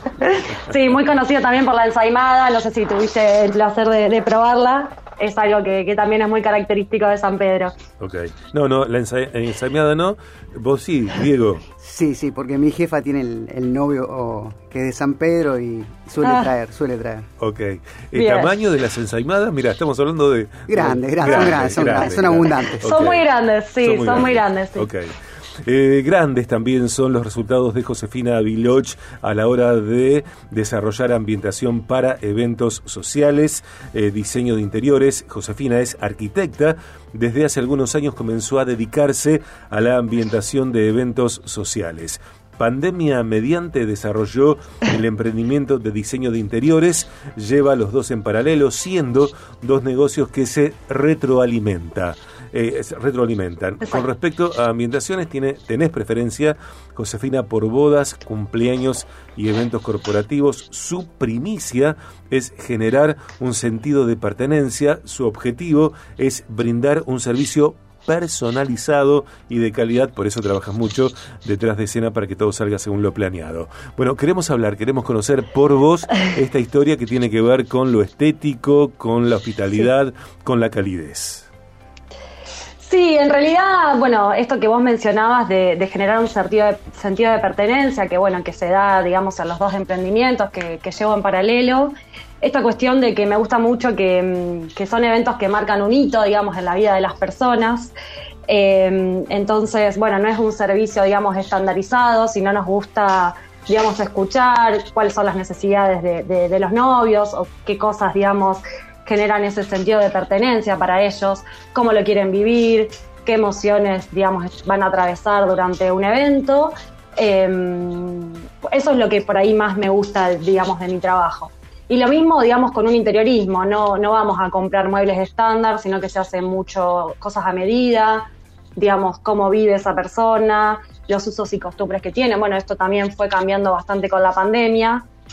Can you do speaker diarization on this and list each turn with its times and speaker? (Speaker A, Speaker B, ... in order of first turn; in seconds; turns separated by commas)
Speaker A: 0.2-7.7, Speaker B: 8.0-11.7, Speaker C: 11.8-17.3, Speaker A: 16.2-16.5, Speaker B: 17.4-23.2, Speaker A: 18.1-18.5, Speaker C: 20.7-22.9, Speaker A: 21.3-21.6, Speaker A: 22.8-24.9, Speaker B: 23.8-81.5, Speaker A: 82.8-98.0, Speaker A: 98.5-135.1